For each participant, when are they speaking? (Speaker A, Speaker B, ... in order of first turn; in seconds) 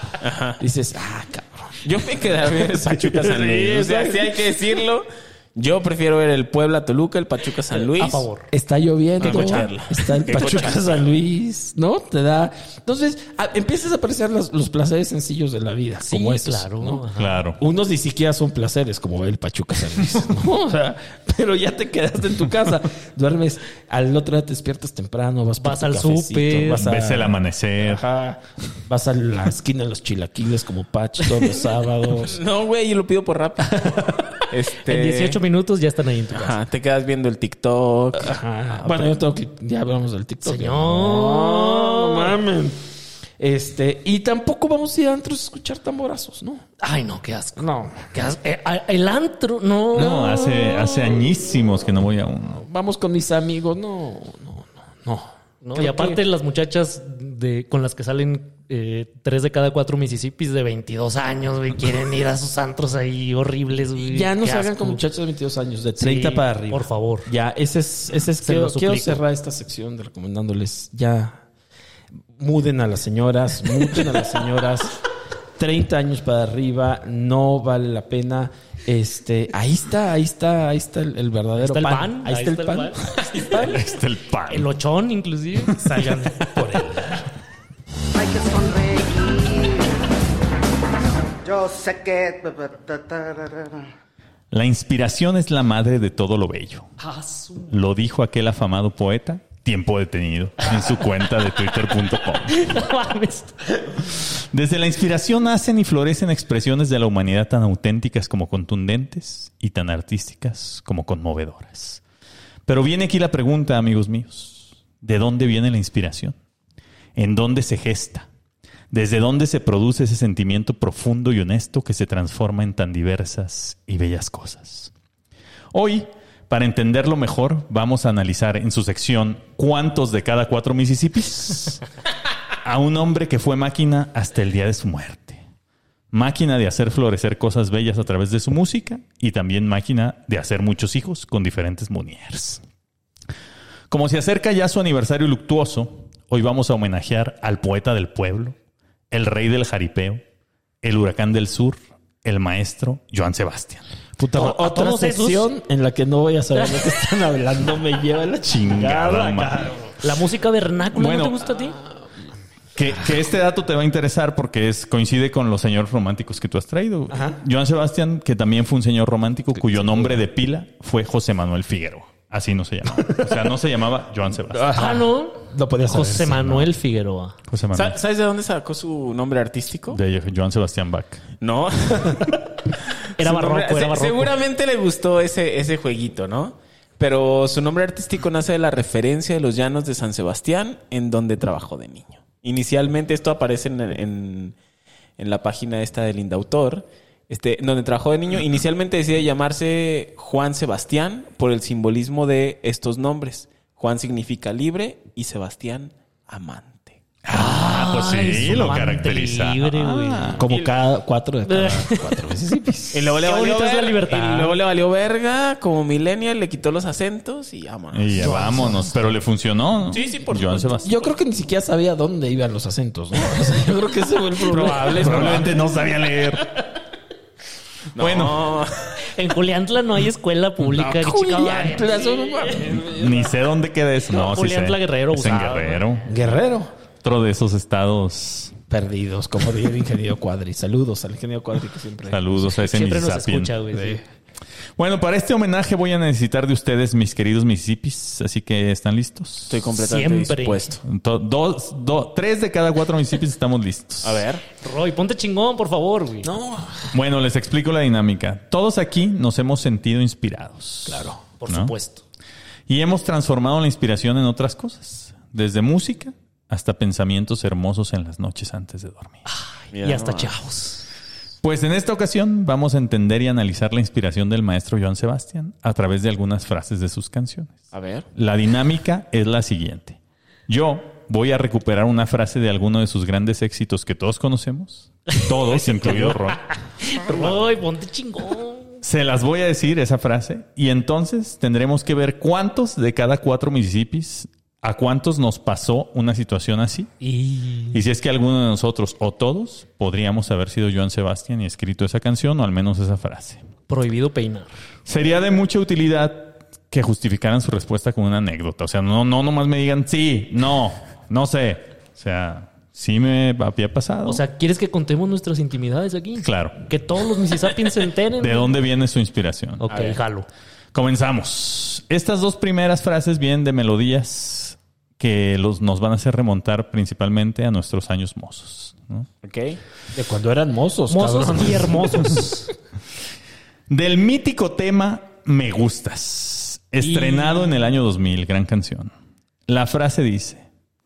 Speaker A: 0.2-0.6, 1.8-8.2, 9.2-11.0, 32.2-35.4, 36.3-38.4, 177.7-180.0, 181.4-182.4, 183.2-194.6, 195.2-207.0, 212.9-218.4, 219.9-221.0, 224.5-225.5, 227.9-228.9, 249.5-250.8, 254.0-254.4, 269.7-270.3, 277.7-278.1, 319.7-320.0, 329.2-329.6
Speaker B: 0.6-4.4, 8.5-17.1, 17.6-32.4, 38.1-42.8, 43.4-46.6, 47.6-48.1, 50.0-51.2, 52.5-56.2, 64.0-71.4, 72.4-75.0, 75.6-83.8, 86.5-87.1, 154.2-159.9, 167.1-167.4, 169.7-170.2, 172.9-173.5, 174.5-176.7, 210.4-213.1, 220.8-225.5, 230.6-233.3, 236.1-236.7, 238.7-242.5, 243.7-244.0, 256.2-256.9, 260.9-261.2, 329.9-332.2
Speaker C: 7.9-8.5, 9.3-9.6, 16.0-17.4, 25.6-26.8, 34.8-36.6, 40.4-42.4, 46.8-50.3, 55.6-65.0, 66.0-67.3, 68.4-69.2, 81.6-83.7, 84.5-86.5, 97.0-97.7, 102.5-103.6, 154.3-155.5, 160.0-161.8, 174.7-177.4, 183.2-184.3, 207.3-210.4, 211.4-212.1, 213.2-214.6, 218.2-218.9, 224.5-225.3, 229.1-232.6, 234.1-235.9, 242.5-244.0, 249.8-250.8, 254.6-256.3, 261.4-262.0, 269.3-270.8, 285.5-286.2, 286.8-288.8, 297.0-297.8, 303.7-304.5, 314.0-318.6, 319.6-320.3, 330.9-332.5, 336.8-337.5
Speaker D: 17.1-17.6, 26.8-28.0, 49.9-52.6, 83.5-84.7, 85.8-86.2, 94.5-96.9, 97.7-102.6, 104.2-112.0, 112.7-116.3, 117.2-118.3, 118.9-124.9, 125.7-131.8, 132.6-135.4, 136.1-142.6, 143.9-148.6, 149.1-150.2, 150.8-153.8, 158.4-159.7, 160.9-161.5, 162.7-174.7, 177.5-178.0, 179.9-181.2, 207.2-210.5, 217.9-220.9, 225.0-226.5, 228.0-228.5, 232.6-236.1, 237.0-238.5, 242.1-243.5, 244.8-249.6, 250.8-254.2, 256.9-261.7, 262.7-269.2, 271.4-277.6, 278.1-286.5, 288.8-296.9, 297.7-303.4, 304.9-314.2, 316.2-316.6, 318.2-319.6, 320.7-329.1, 333.7-338.9, 339.5-340.4
Speaker E: 88.1-90.0, 91.4-93.8